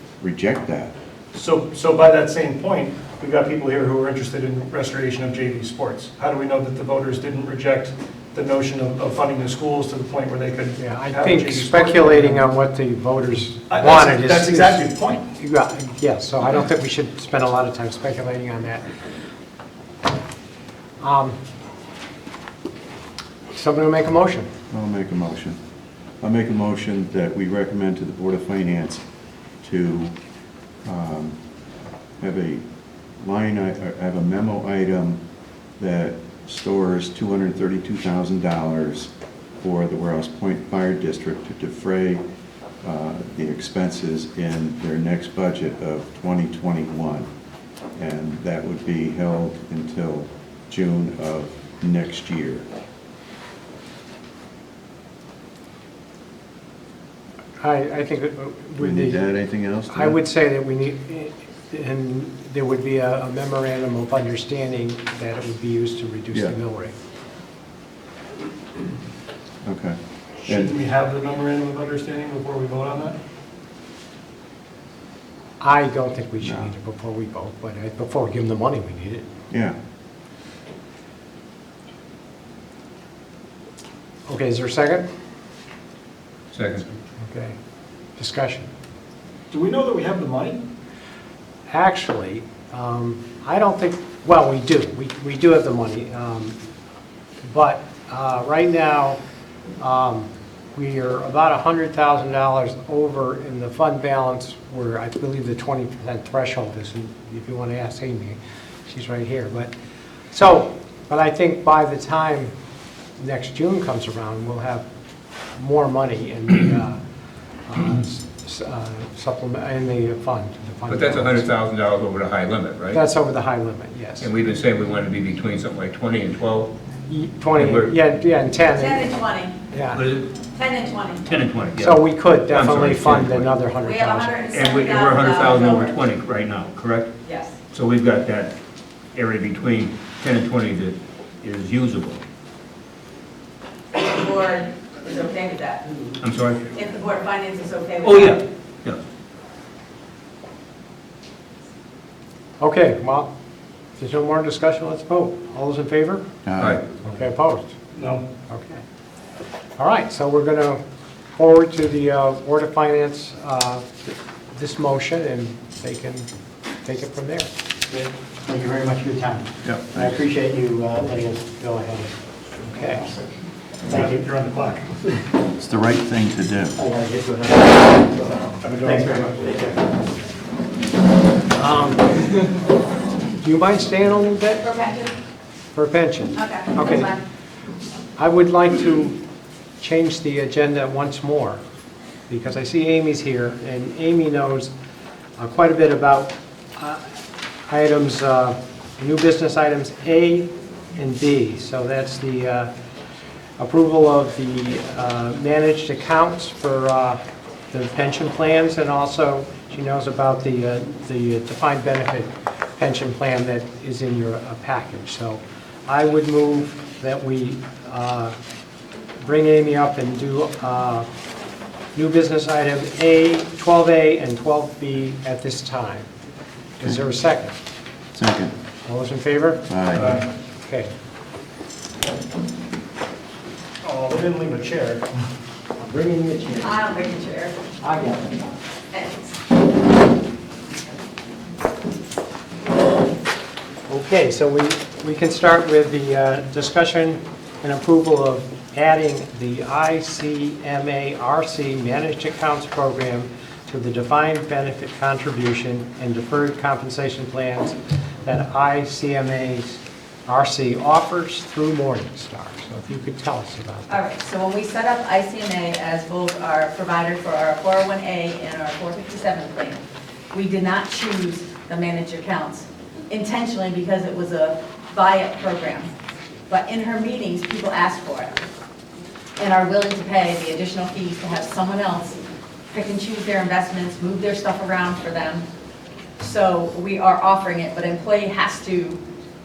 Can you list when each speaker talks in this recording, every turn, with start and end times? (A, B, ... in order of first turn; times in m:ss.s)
0:00.2-0:00.9 A
0:01.3-0:12.4 B
0:10.8-0:18.9 C
0:13.7-0:15.3 B
0:21.0-0:21.4 C
0:23.5-0:24.5 C
0:24.7-0:25.6 A
0:26.2-0:29.0 A
0:29.6-0:30.2 A
0:30.8-0:31.4 A
0:32.2-0:32.6 A
0:33.2-0:35.2 A
0:35.8-0:42.2 A
0:42.8-0:47.3 A
0:48.0-0:52.6 A
0:57.6-0:59.2 C
0:58.8-1:00.2 A
0:59.9-1:06.9 C
1:09.6-1:10.7 A
1:10.4-1:13.2 B
1:15.6-1:19.3 C
1:16.4-1:16.7 A
1:19.5-1:19.8 A
1:24.3-1:25.0 C
1:26.5-1:26.8 D
1:27.2-1:27.6 C
1:28.2-1:28.7 C
1:29.5-1:30.6 B
1:31.7-1:36.6 C
1:37.4-1:39.2 C
1:39.8-1:49.7 C
1:50.3-1:52.5 C
1:53.2-1:54.8 C
1:55.6-1:57.0 C
1:57.7-2:01.5 C
2:00.9-2:03.0 D
2:02.9-2:04.3 C
2:04.2-2:06.7 D
2:07.1-2:09.1 C
2:07.5-2:08.0 D
2:08.7-2:09.6 E
2:09.7-2:10.0 C
2:09.9-2:10.4 D
2:10.5-2:11.3 E
2:11.3-2:13.6 D
2:11.8-2:14.4 C
2:13.8-2:16.0 E
2:14.4-2:17.1 D
2:17.2-2:17.6 E
2:17.7-2:18.5 D
2:19.1-2:22.2 D
2:23.9-2:26.2 E
2:26.2-2:26.7 D
2:26.7-2:28.4 E
2:28.0-2:29.0 D
2:32.6-2:33.3 C
2:34.0-2:36.2 C
2:36.4-2:36.8 A
2:36.6-2:36.8 D
2:37.0-2:37.7 C
2:37.9-2:38.2 B
2:38.5-2:38.8 C
2:39.8-2:40.8 C
2:41.4-2:46.3 C
2:46.8-2:47.5 C
2:48.5-2:49.5 F
2:49.6-2:50.2 A
2:50.0-2:53.1 C
2:50.2-2:51.1 F
2:53.9-2:55.0 B
2:55.6-2:56.8 A
2:56.8-2:59.7 F
2:58.6-2:59.6 B
3:01.5-3:02.3 C
3:03.4-3:04.7 C
3:04.6-3:05.1 E
3:05.7-3:07.1 C
3:06.4-3:07.2 E
3:08.2-3:09.2 C
3:09.8-3:11.6 C
3:12.3-3:14.7 C
3:15.4-3:17.0 C
3:17.7-3:22.7 C
3:23.6-3:27.2 C
3:27.7-3:38.4 C
3:39.2-3:41.1 C
3:41.9-3:46.1 C
3:46.8-3:47.6 C
3:48.1-3:48.5 A
3:48.8-3:49.6 C
3:49.7-3:50.3 A
3:50.0-3:50.3 B
3:50.6-3:50.9 C
3:53.8-3:55.1 B
3:55.8-3:56.7 F
3:56.6-3:57.6 E
3:57.8-3:58.3 F
3:58.9-3:59.4 E
4:03.9-4:24.0 C
4:23.9-4:35.9 E
4:36.5-4:38.4 E
4:39.4-4:45.4 E
4:46.2-4:49.0 E